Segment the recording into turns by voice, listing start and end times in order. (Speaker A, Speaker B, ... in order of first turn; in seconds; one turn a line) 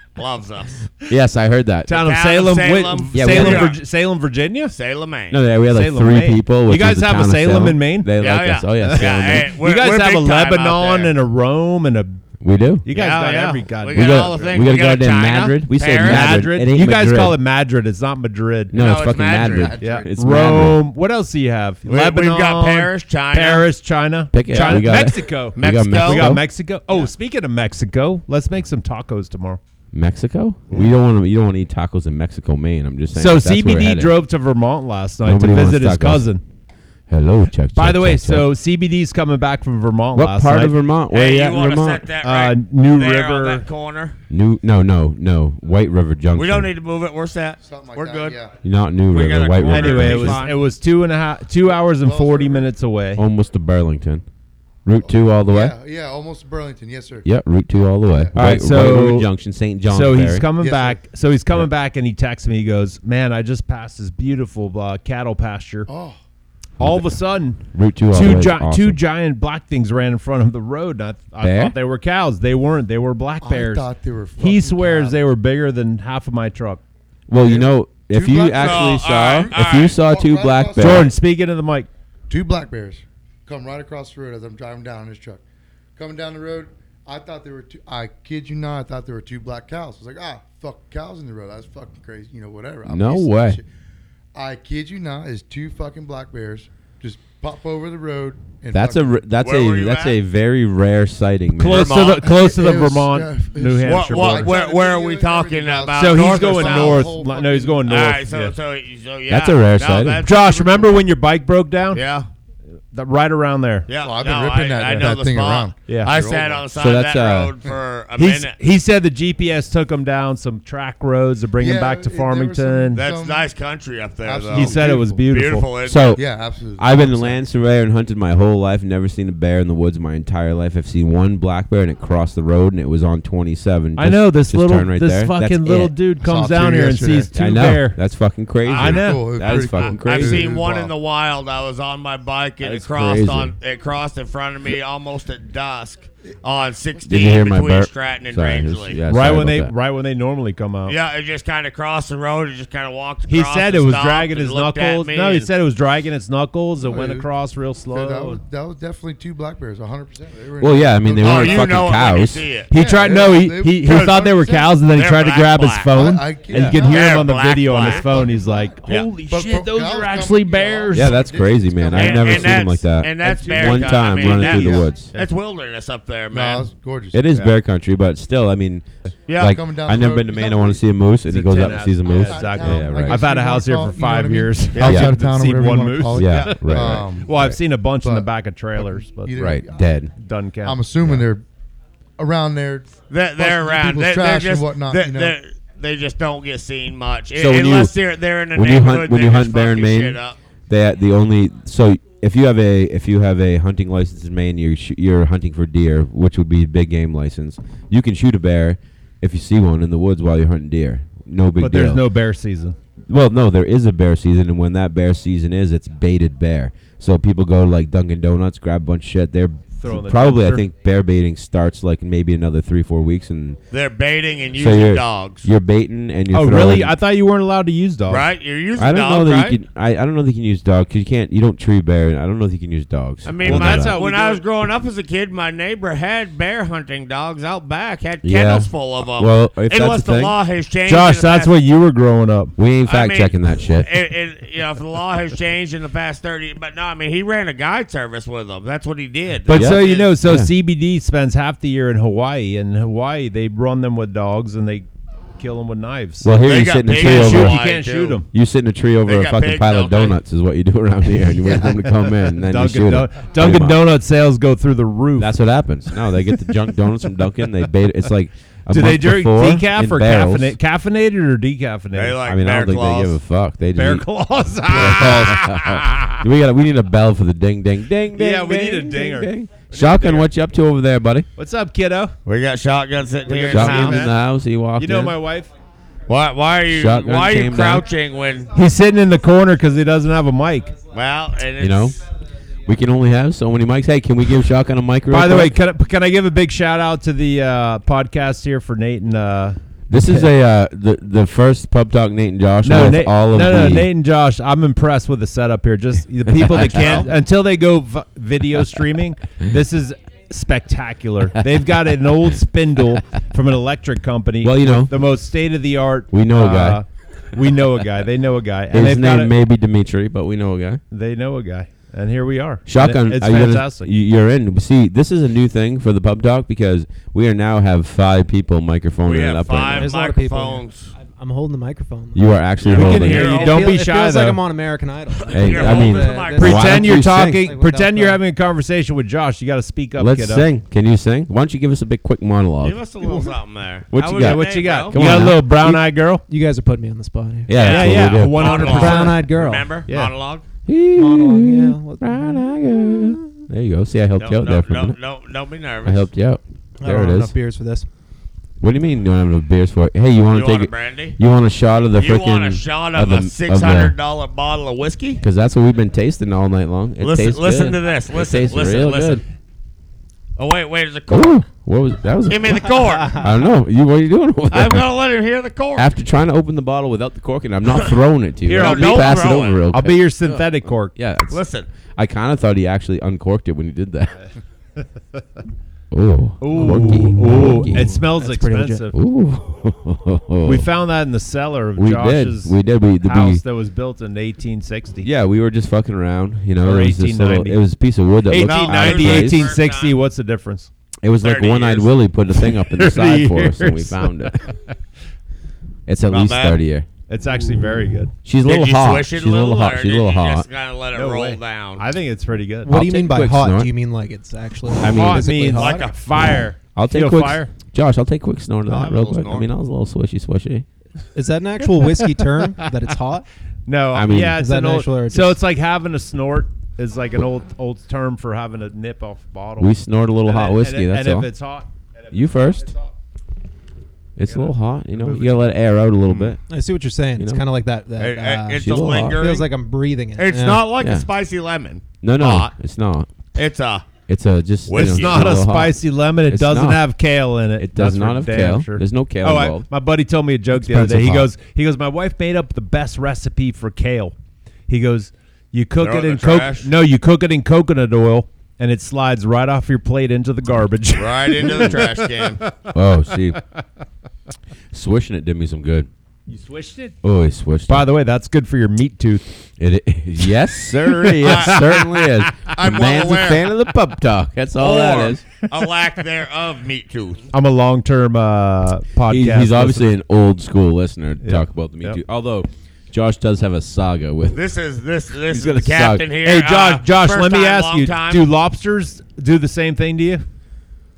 Speaker A: 0.1-0.9
Speaker B: 1.1-1.9
Speaker C: 1.9-4.7
Speaker A: 2.0-3.8
Speaker B: 3.1-3.7
Speaker A: 4.7-5.4
Speaker B: 5.3-9.5
Speaker C: 5.7-8.1
Speaker A: 8.2-11.1
Speaker C: 8.8-12.2
Speaker B: 12.4-12.9
Speaker C: 12.8-14.6
Speaker A: 12.9-16.4
Speaker B: 13.9-17.4
Speaker C: 16.0-18.8
Speaker B: 18.7-20.8
Speaker A: 18.7-19.7
Speaker D: 19.4-20.7
Speaker C: 19.8-29.6
Speaker A: 21.9-23.7
Speaker B: 24.3-26.4
Speaker A: 25.6-26.4
Speaker B: 29.9-34.2
Speaker C: 33.1-36.4
Speaker B: 35.2-36.3
Speaker B: 37.1-38.5
Speaker C: 37.7-40.7
Speaker B: 40.1-42.0
Speaker A: 41.1-44.1
Speaker C: 42.2-43.6
Speaker B: 44.3-46.7
Speaker A: 46.3-48.4
Speaker D: 47.6-48.5
Speaker B: 48.6-50.5
Speaker A: 49.1-50.6
Speaker C: 49.7-53.2
Speaker D: 51.8-52.7
Speaker B: 53.1-54.2
Speaker B: 54.8-55.8
Speaker D: 55.0-57.3
Speaker B: 57.2-60.5
Speaker C: 58.3-59.3
Speaker C: 59.9-65.9
Speaker D: 60.6-61.0
Speaker D: 65.9-66.2
Speaker B: 66.8-69.0
Speaker C: 66.8-76.8
Speaker B: 71.4-71.7
Speaker D: 73.4-75.2
Speaker B: 77.3-81.1
Speaker D: 77.4-81.1
Speaker A: 78.5-79.9
Speaker C: 80.8-81.9
Speaker D: 82.3-85.4
Speaker D: 86.0-93.6
Speaker B: 92.9-93.6
Speaker D: 94.3-99.2
Speaker B: 98.7-102.0
Speaker A: 99.4-100.2
Speaker C: 101.5-104.5
Speaker A: 101.6-102.3
Speaker D: 102.2-108.1
Speaker A: 103.8-107.2
Speaker C: 105.9-108.5
Speaker A: 107.8-111.0
Speaker B: 109.3-110.2
Speaker C: 110.2-112.0
Speaker A: 111.9-112.3
Speaker C: 112.9-113.9
Speaker A: 113.9-118.5
Speaker D: 114.0-116.7
Speaker C: 115.9-116.2
Speaker B: 116.7-117.5
Speaker C: 118.2-123.0
Speaker D: 121.6-123.5
Speaker A: 122.9-126.2
Speaker D: 124.2-125.2
Speaker C: 124.5-125.7
Speaker B: 125.8-126.2
Speaker D: 126.1-127.4
Speaker B: 126.8-135.9
Speaker C: 133.9-138.0
Speaker D: 136.2-137.3
Speaker B: 137.3-140.4
Speaker A: 138.6-149.0
Speaker C: 138.7-139.2
Speaker D: 138.8-140.9
Speaker B: 142.6-143.5
Speaker B: 147.1-149.7
Speaker C: 149.1-150.9
Speaker A: 150.9-155.5
Speaker C: 153.3-158.4
Speaker D: 156.8-157.3
Speaker D: 157.9-162.0
Speaker B: 160.6-162.5
Speaker A: 161.2-162.7
Speaker C: 162.7-171.2
Speaker D: 162.7-164.8
Speaker A: 163.8-164.2
Speaker A: 164.9-165.9
Speaker D: 165.9-172.6
Speaker A: 166.7-168.3
Speaker B: 170.9-175.1
Speaker A: 171.9-176.7
Speaker D: 173.2-174.9
Speaker D: 176.3-177.2
Speaker B: 177.1-178.8
Speaker A: 179.3-179.6
Speaker B: 179.4-183.2
Speaker D: 179.4-180.8
Speaker C: 181.3-189.5
Speaker D: 181.6-187.3
Speaker B: 184.8-185.1
Speaker B: 186.1-187.6
Speaker D: 188.0-189.8
Speaker B: 189.3-190.1
Speaker C: 190.2-191.2
Speaker D: 190.6-191.4
Speaker D: 192.2-195.3
Speaker A: 193.1-200.4
Speaker B: 197.3-197.9
Speaker B: 198.5-212.1
Speaker C: 211.6-212.8
Speaker B: 213.1-223.6
Speaker C: 219.8-220.7
Speaker A: 223.7-225.5
Speaker B: 224.5-226.9
Speaker C: 226.3-228.3
Speaker A: 228.1-229.6
Speaker B: 228.8-233.9
Speaker A: 233.2-241.6
Speaker C: 233.4-234.4
Speaker B: 238.2-240.3
Speaker C: 240.8-242.5
Speaker B: 242.6-243.9
Speaker A: 242.8-250.1
Speaker C: 249.5-256.3
Speaker B: 249.5-250.5
Speaker B: 256.2-257.6
Speaker A: 256.4-258.2
Speaker C: 257.0-258.3
Speaker B: 258.3-263.9
Speaker A: 259.1-260.2
Speaker C: 262.4-265.3
Speaker B: 265.2-270.6
Speaker C: 268.7-272.2
Speaker A: 271.9-273.2
Speaker B: 272.2-274.1
Speaker C: 273.7-276.2
Speaker B: 274.6-281.3
Speaker C: 278.1-280.3
Speaker C: 281.4-282.1
Speaker A: 282.2-284.1
Speaker C: 283.2-284.1
Speaker B: 283.5-285.2
Speaker C: 284.8-285.5
Speaker A: 286.1-288.5
Speaker B: 286.7-287.9
Speaker C: 288.5-290.7
Speaker A: 290.9-292.0
Speaker B: 291.6-292.0
Speaker B: 292.6-295.5
Speaker C: 295.1-300.3
Speaker B: 299.9-303.9
Speaker C: 302.6-319.3
Speaker B: 306.3-307.1
Speaker B: 314.4-315.0
Speaker B: 316.1-316.8
Speaker B: 318.7-320.8
Speaker C: 320.9-323.9
Speaker B: 322.6-329.9
Speaker A: 329.0-330.9
Speaker E: 329.7-338.2
Speaker B: 332.1-333.4
Speaker A: 332.6-333.7
Speaker C: 332.7-334.4
Speaker A: 335.2-336.9
Speaker B: 335.3-337.4
Speaker C: 336.3-340.5
Speaker B: 340.0-342.8
Speaker A: 342.6-345.0
Speaker B: 343.9-345.8
Speaker C: 344.1-346.2
Speaker E: 346.3-349.7
Speaker B: 347.5-348.9
Speaker C: 347.5-349.2
Speaker A: 347.6-350.4
Speaker C: 349.9-350.1
Speaker B: 350.7-355.0
Speaker E: 350.9-353.4
Speaker A: 354.2-356.1
Speaker B: 355.8-357.3
Speaker E: 356.8-357.9
Speaker B: 358.6-363.9
Speaker A: 360.3-361.2
Speaker A: 361.9-365.2
Speaker B: 365.2-369.2
Speaker A: 367.0-369.2
Speaker A: 370.4-371.4
Speaker B: 371.1-374.9
Speaker A: 372.2-373.2
Speaker A: 374.5-375.9
Speaker B: 375.8-381.4
Speaker C: 378.4-379.1
Speaker A: 378.6-379.6
Speaker C: 379.7-380.9
Speaker A: 381.3-381.7
Speaker B: 381.9-384.1
Speaker B: 385.9-388.0
Speaker C: 386.4-388.9
Speaker E: 386.6-388.9
Speaker B: 388.9-390.7
Speaker C: 390.4-395.1
Speaker B: 391.8-393.4
Speaker B: 395.0-399.5
Speaker C: 396.6-397.6
Speaker C: 398.3-400.7
Speaker A: 398.3-399.9
Speaker B: 401.0-404.4
Speaker A: 401.2-401.9
Speaker C: 402.7-404.7
Speaker B: 405.9-406.9
Speaker A: 406.1-406.6
Speaker C: 407.1-408.1
Speaker B: 408.2-410.4
Speaker A: 408.4-411.8
Speaker C: 410.9-412.8
Speaker E: 412.6-415.9
Speaker B: 412.7-413.7
Speaker B: 414.8-415.3
Speaker C: 414.8-417.5
Speaker A: 415.5-416.0
Speaker B: 416.8-420.6
Speaker A: 418.7-419.5
Speaker E: 421.1-423.2
Speaker C: 421.6-422.1
Speaker C: 423.6-429.7
Speaker B: 423.9-424.4
Speaker E: 424.3-425.4
Speaker B: 429.6-431.3
Speaker C: 430.2-432.9
Speaker B: 432.1-432.7
Speaker B: 434.2-436.4
Speaker C: 434.3-435.4
Speaker E: 436.5-440.7
Speaker B: 437.1-437.4
Speaker A: 438.0-439.4
Speaker B: 438.6-439.2
Speaker A: 440.1-442.5
Speaker B: 440.8-441.1
Speaker B: 442.0-443.1
Speaker A: 443.3-443.9
Speaker B: 444.1-446.9
Speaker A: 444.6-445.4
Speaker C: 444.7-454.1
Speaker B: 447.6-449.6
Speaker B: 450.6-451.3
Speaker C: 454.7-462.5
Speaker A: 455.8-456.7
Speaker A: 460.9-462.4
Speaker B: 462.7-463.4
Speaker B: 464.7-465.9
Speaker C: 466.3-467.0
Speaker B: 467.0-467.9
Speaker C: 467.7-469.3
Speaker B: 469.6-475.2
Speaker C: 470.5-472.3
Speaker A: 471.2-471.6
Speaker A: 472.5-473.5
Speaker A: 474.6-477.3
Speaker C: 477.3-479.9
Speaker B: 479.1-484.4
Speaker C: 481.2-482.0
Speaker A: 484.3-488.3
Speaker B: 485.3-486.1
Speaker C: 486.2-490.2